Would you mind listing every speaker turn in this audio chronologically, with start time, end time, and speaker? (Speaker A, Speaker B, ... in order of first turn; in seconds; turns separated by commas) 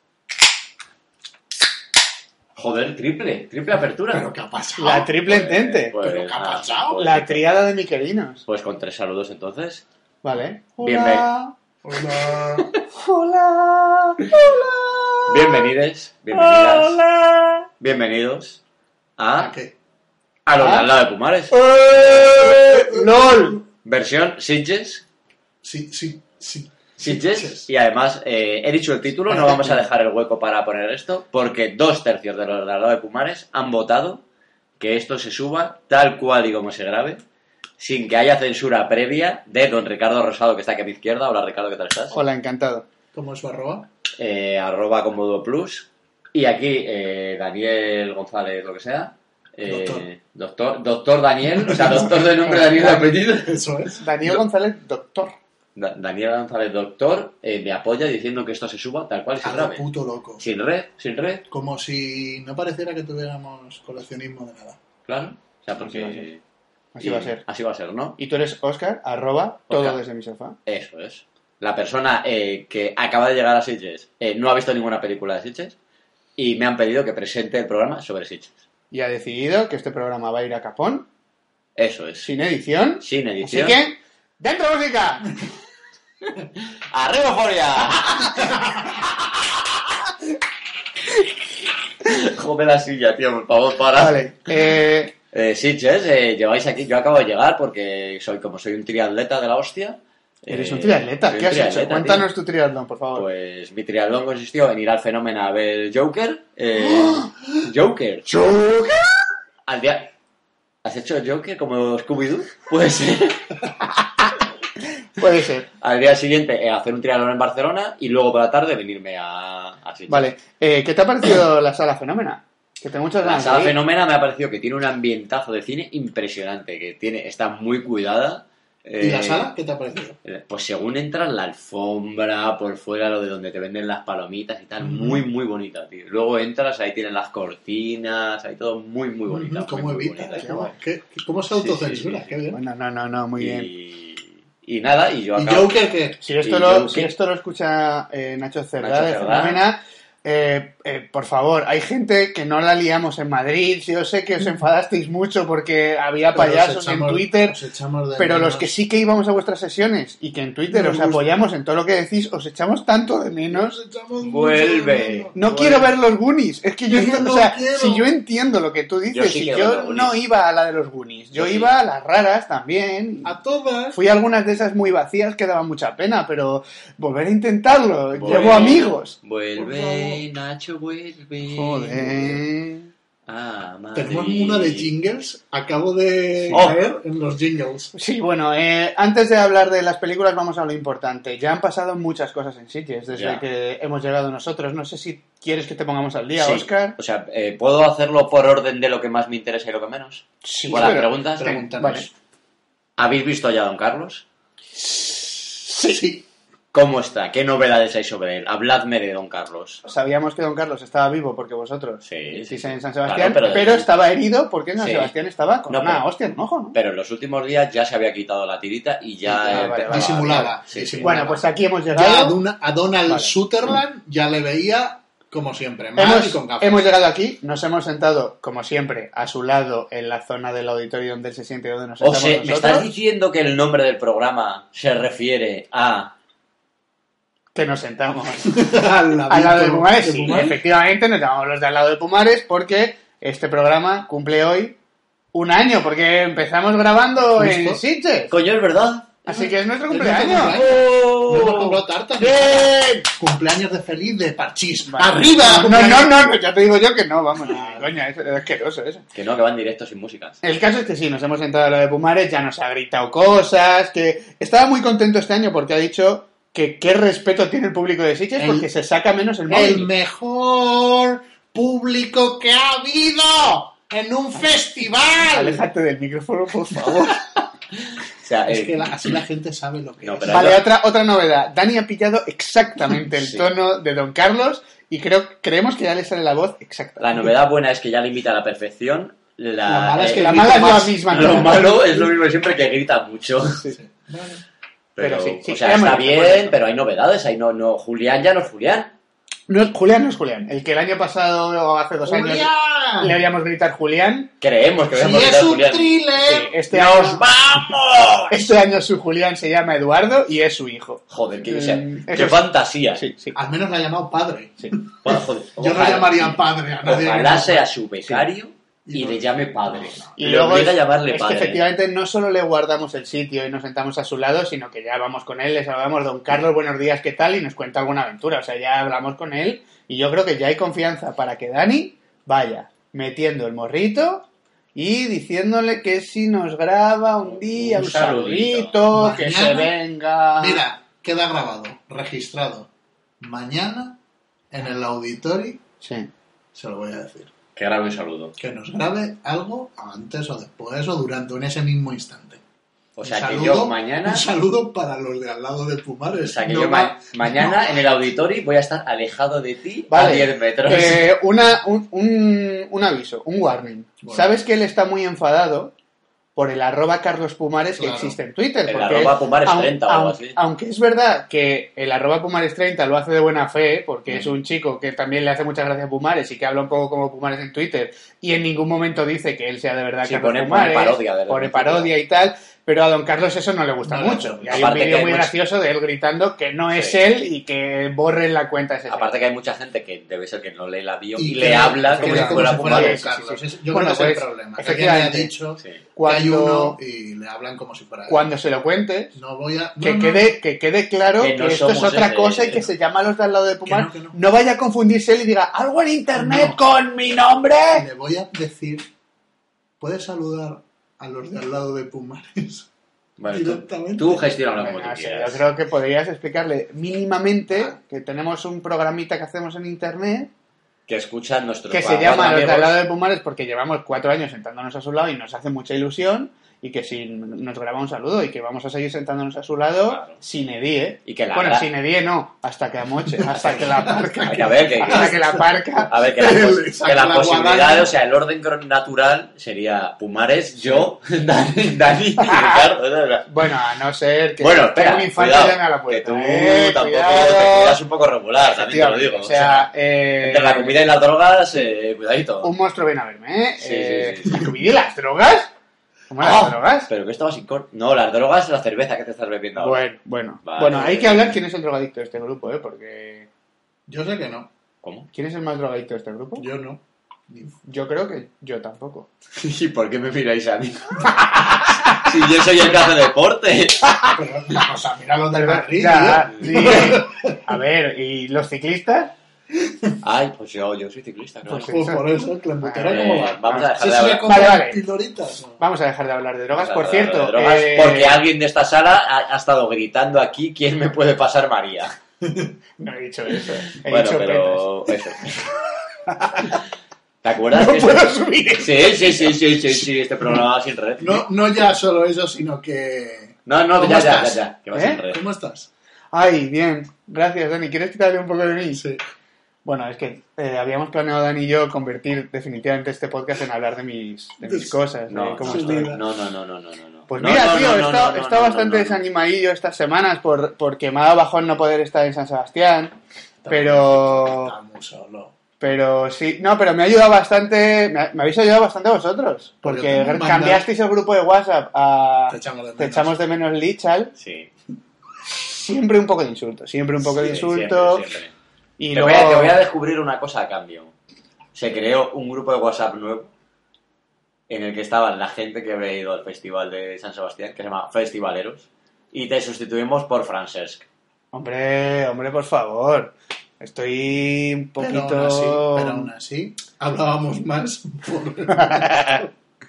Speaker A: 2.5-4.3, Speaker B: 4.0-5.1, Speaker C: 4.8-6.0, Speaker A: 5.2-7.5, Speaker B: 6.0-7.0, Speaker C: 7.0-8.4, Speaker A: 8.5-9.8, Speaker C: 10.2-11.5, Speaker A: 10.8-11.3, Speaker B: 11.8-12.7, Speaker C: 12.9-15.7, Speaker A: 15.3-17.0, Speaker C: 16.3-17.6, Speaker A: 17.8-18.6, Speaker A: 19.2-19.5, Speaker B: 19.4-19.7, Speaker A: 20.4-21.6, Speaker C: 20.6-20.9, Speaker C: 21.5-23.6, Speaker B: 22.2-23.6, Speaker A: 23.8-25.0, Speaker B: 25.6-27.7, Speaker A: 27.0-34.2, Speaker C: 29.3-29.8, Speaker A: 34.8-37.2, Speaker A: 37.8-42.2, Speaker C: 42.1-42.9, Speaker B: 43.1-43.9, Speaker A: 44.2-53.5, Speaker B: 49.6-50.1, Speaker B: 51.6-54.4, Speaker C: 52.5-52.9, Speaker C: 54.0-55.4, Speaker A: 55.8-59.8, Speaker B: 59.4-60.4, Speaker A: 60.4-61.4, Speaker B: 61.5-64.8, Speaker A: 65.0-66.4, Speaker C: 65.8-66.2, Speaker C: 66.9-67.4, Speaker A: 67.0-68.2, Speaker C: 68.2-70.6, Speaker A: 69.7-70.0, Speaker A: 70.7-75.7, Speaker A: 76.4-78.5, Speaker C: 78.9-81.1, Speaker A: 81.8-82.3, Speaker C: 82.2-85.3, Speaker A: 83.0-83.8, Speaker A: 86.6-88.8, Speaker A: 92.0-94.3, Speaker C: 93.9-95.1, Speaker A: 95.3-102.3, Speaker C: 100.5-103.3, Speaker A: 103.1-108.3, Speaker C: 106.9-107.2, Speaker C: 108.4-109.0, Speaker A: 109.7-110.1, Speaker A: 110.8-113.6, Speaker C: 115.2-115.7, Speaker A: 115.8-120.3, Speaker C: 120.1-123.8, Speaker A: 123.2-129.5, Speaker B: 129.0-130.2, Speaker A: 130.2-140.7, Speaker B: 134.8-135.2, Speaker B: 139.2-142.6, Speaker C: 140.4-140.7, Speaker A: 141.5-142.3, Speaker C: 142.5-143.7, Speaker A: 143.4-145.8, Speaker B: 145.3-146.2, Speaker C: 146.2-157.6, Speaker A: 146.4-147.1, Speaker A: 148.8-149.6, Speaker B: 156.3-158.7, Speaker C: 158.2-163.8, Speaker B: 160.7-161.4, Speaker B: 163.5-165.4, Speaker A: 164.2-165.9, Speaker C: 165.3-173.3, Speaker B: 166.9-168.1, Speaker A: 169.1-170.2, Speaker A: 171.3-171.7, Speaker B: 173.2-174.0, Speaker C: 173.9-179.1, Speaker A: 178.2-182.4, Speaker B: 178.2-178.9, Speaker B: 179.6-180.2, Speaker C: 181.4-182.9, Speaker A: 183.3-184.9, Speaker B: 183.9-187.9, Speaker A: 186.5-186.8, Speaker C: 187.9-197.0, Speaker A: 193.1-193.4, Speaker A: 196.4-201.7, Speaker C: 200.4-201.1, Speaker B: 200.7-202.1, Speaker C: 201.8-202.1, Speaker A: 203.0-204.2, Speaker C: 204.8-206.0, Speaker B: 205.8-206.2, Speaker A: 206.7-209.8, Speaker C: 209.8-216.8, Speaker A: 212.0-213.9, Speaker A: 214.8-215.1, Speaker A: 215.7-216.1, Speaker A: 216.7-221.2, Speaker C: 219.3-222.4, Speaker B: 219.5-226.9, Speaker C: 223.1-223.3, Speaker C: 225.9-232.9, Speaker A: 232.0-236.1, Speaker C: 237.5-238.6, Speaker B: 238.4-240.6, Speaker C: 239.3-244.8, Speaker C: 245.3-248.3, Speaker B: 247.3-247.8, Speaker A: 248.3-249.5, Speaker C: 249.2-250.6, Speaker B: 249.9-256.2, Speaker A: 250.5-251.8, Speaker C: 252.2-253.1, Speaker C: 254.9-259.0, Speaker B: 257.4-257.9, Speaker A: 259.1-260.4, Speaker C: 260.4-269.9, Speaker B: 268.4-268.7, Speaker B: 269.5-275.6, Speaker C: 275.3-277.2, Speaker A: 278.2-278.9, Speaker B: 278.5-280.6, Speaker A: 280.0-280.6, Speaker C: 280.3-287.3, Speaker A: 283.2-283.5, Speaker A: 287.0-293.6, Speaker B: 289.6-292.1, Speaker C: 290.1-291.8, Speaker B: 293.7-294.4, Speaker A: 294.9-298.9, Speaker C: 295.0-296.6, Speaker C: 299.5-304.3, Speaker B: 302.0-303.2, Speaker A: 304.4-305.9, Speaker B: 304.9-307.2, Speaker C: 306.2-307.2, Speaker A: 306.7-308.5, Speaker C: 308.3-313.4, Speaker A: 311.1-313.0, Speaker B: 313.3-317.7, Speaker A: 315.0-321.6, Speaker B: 318.9-320.2, Speaker C: 320.2-340.6, Speaker A: 337.3-338.8, Speaker B: 338.9-339.8, Speaker B: 340.4-342.7, Speaker B: 343.2-344.0, Speaker B: 344.5-345.6, Speaker C: 345.8-346.1, Speaker B: 346.5-347.3, Speaker A: 347.5-348.3, Speaker B: 348.4-352.4, Speaker A: 352.9-354.3, Speaker B: 353.0-357.9, Speaker A: 356.2-361.1, Speaker C: 359.9-365.7, Speaker B: 364.0-364.3, Speaker C: 366.4-389.2, Speaker B: 367.7-368.1, Speaker A: 368.6-370.4, Speaker A: 380.0-381.9, Speaker B: 383.8-384.8, Speaker A: 384.5-385.3, Speaker A: 386.7-387.0, Speaker A: 388.9-393.0, Speaker B: 391.1-398.3, Speaker C: 391.9-395.3, Speaker C: 395.9-396.8, Speaker C: 398.1-399.1, Speaker B: 399.1-400.4, Speaker C: 399.8-407.9, Speaker A: 401.2-402.7, Speaker B: 403.6-404.2, Speaker B: 406.1-406.6, Speaker B: 407.7-408.9, Speaker B: 409.8-412.7, Speaker A: 413.2-415.4, Speaker B: 413.3-414.4, Speaker C: 414.6-420.3, Speaker A: 420.9-422.8, Speaker C: 421.7-435.9, Speaker A: 429.9-430.2, Speaker A: 431.1-431.7, Speaker B: 433.1-434.2, Speaker A: 433.4-433.6, Speaker A: 434.2-435.3, Speaker B: 434.8-437.9, Speaker A: 435.9-443.3, Speaker C: 442.2-442.7, Speaker C: 443.2-447.8, Speaker A: 444.4-452.5, Speaker C: 448.4-450.8, Speaker C: 452.4-455.5, Speaker A: 453.6-454.4, Speaker C: 456.1-456.9, Speaker A: 456.2-459.8, Speaker C: 459.6-463.3, Speaker A: 460.4-461.4, Speaker B: 463.9-464.5, Speaker A: 464.8-465.1, Speaker C: 465.1-466.5, Speaker B: 466.4-467.6, Speaker C: 467.6-469.1, Speaker A: 469.4-474.0, Speaker B: 474.1-477.5, Speaker C: 475.4-479.1, Speaker A: 476.5-476.8, Speaker A: 480.0-481.8, Speaker C: 481.5-482.0, Speaker B: 481.6-485.6, Speaker C: 482.6-483.7, Speaker A: 482.9-484.5, Speaker C: 484.2-484.8, Speaker C: 485.6-488.2, Speaker A: 486.5-491.9, Speaker B: 492.2-492.5, Speaker C: 492.8-494.9, Speaker A: 493.9-495.4, Speaker C: 496.1-496.6, Speaker A: 497.2-501.3, Speaker C: 497.5-499.3, Speaker B: 501.0-504.4, Speaker A: 503.4-505.2, Speaker C: 504.7-505.0, Speaker B: 505.1-505.7, Speaker C: 506.1-508.8, Speaker B: 508.7-509.0, Speaker C: 509.6-515.9, Speaker B: 514.4-514.8, Speaker A: 515.1-519.0, Speaker B: 515.4-516.0, Speaker C: 517.1-523.0, Speaker B: 523.4-525.3, Speaker C: 523.5-524.5, Speaker C: 525.6-534.1, Speaker B: 529.6-530.7, Speaker B: 532.3-533.2, Speaker A: 534.2-534.5, Speaker C: 535.3-538.1, Speaker A: 537.0-538.3, Speaker C: 538.8-539.6, Speaker A: 538.9-540.9, Speaker A: 541.5-543.3, Speaker A: 544.5-550.8, Speaker C: 551.3-556.1, Speaker B: 554.8-559.3, Speaker C: 558.6-559.2